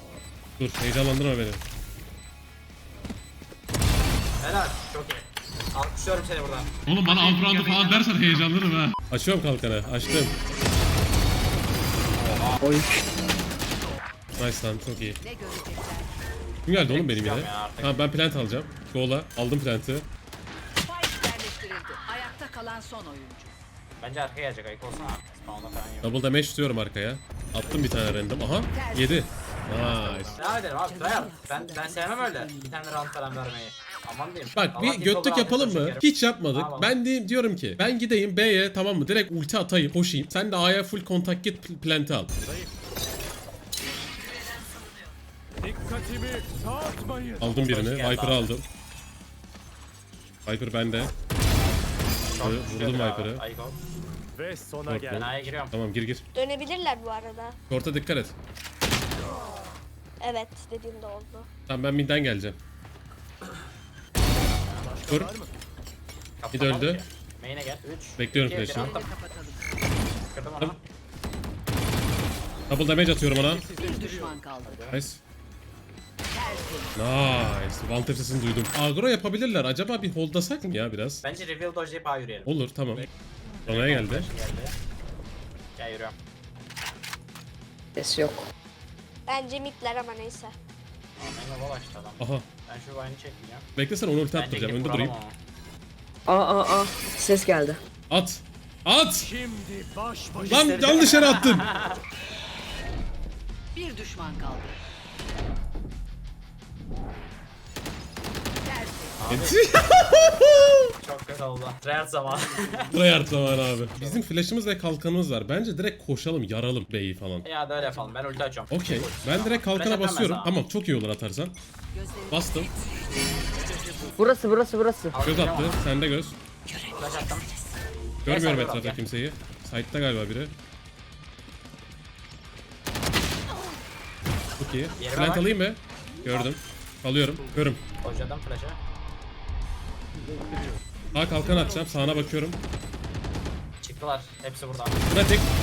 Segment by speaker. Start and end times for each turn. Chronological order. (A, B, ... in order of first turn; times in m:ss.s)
0:00.6-0:01.6 A
0:04.4-0:06.7 B
0:06.9-0:10.4 A
0:07.4-0:08.2 B
0:12.2-0:12.7 B
0:12.6-0:12.9 C
0:14.4-0:15.2 A
0:15.2-0:16.1 D
0:16.6-0:20.1 A
0:16.8-0:18.0 B
0:20.8-0:23.5 D
0:24.0-0:26.1 B
0:26.0-0:30.4 A
0:28.7-0:29.3 D
0:29.7-0:37.0 B
0:30.4-0:32.8 D
0:34.5-0:42.3 A
0:45.6-0:47.5 E
0:47.4-0:48.6 A
0:47.6-0:48.5 B
0:50.4-0:51.1 A
0:52.3-0:53.8 B
0:52.4-0:53.4 A
0:54.3-0:55.3 E
0:54.8-0:56.2 A
0:55.1-0:55.7 B
0:56.3-0:57.6 F
0:57.7-0:58.3 A
1:00.2-1:01.5 F
1:01.7-1:02.6 A
1:04.3-1:04.9 B
1:04.8-1:05.5 E
1:06.4-1:09.1 B
1:06.5-1:07.0 A
1:08.2-1:09.0 A
1:08.7-1:09.7 D
1:10.3-1:10.8 B
1:12.7-1:13.6 A
1:13.4-1:14.5 E
1:13.8-1:14.9 D
1:14.9-1:15.2 A
1:16.3-1:17.0 D
1:17.0-1:21.2 A
1:21.2-1:22.5 B
1:22.4-1:23.0 A
1:23.7-1:24.3 A
1:23.7-1:24.7 B
1:25.8-1:26.2 B
1:28.0-1:28.4 C
1:29.3-1:30.5 F
1:31.2-1:33.7 B
1:32.2-1:32.4 A
1:33.8-1:35.1 A
1:34.3-1:35.4 B
1:36.3-1:37.8 C
1:38.1-1:39.3 A
1:39.2-1:40.9 E
1:40.4-1:41.9 B
1:40.5-1:41.6 A
1:43.7-1:44.8 D
1:48.6-1:49.2 D
1:49.2-1:49.6 B
1:49.3-1:50.9 A
1:51.0-1:52.9 B
1:52.9-1:57.5 A
1:53.8-1:54.2 B
1:57.4-2:00.5 B
1:57.8-1:58.1 D
1:58.7-2:01.6 A
2:01.9-2:03.3 D
2:02.3-2:02.7 A
2:03.6-2:04.2 E
2:04.2-2:05.1 C
2:05.1-2:05.8 B
2:05.2-2:06.4 A
2:06.8-2:07.5 B
2:08.2-2:10.5 A
2:08.3-2:09.0 B
2:14.6-2:17.8 A
2:15.0-2:15.5 B
2:18.0-2:18.8 B
2:20.5-2:20.7 E
2:21.1-2:22.6 A
2:21.4-2:22.2 E
2:23.8-2:25.0 B
2:25.1-2:25.5 A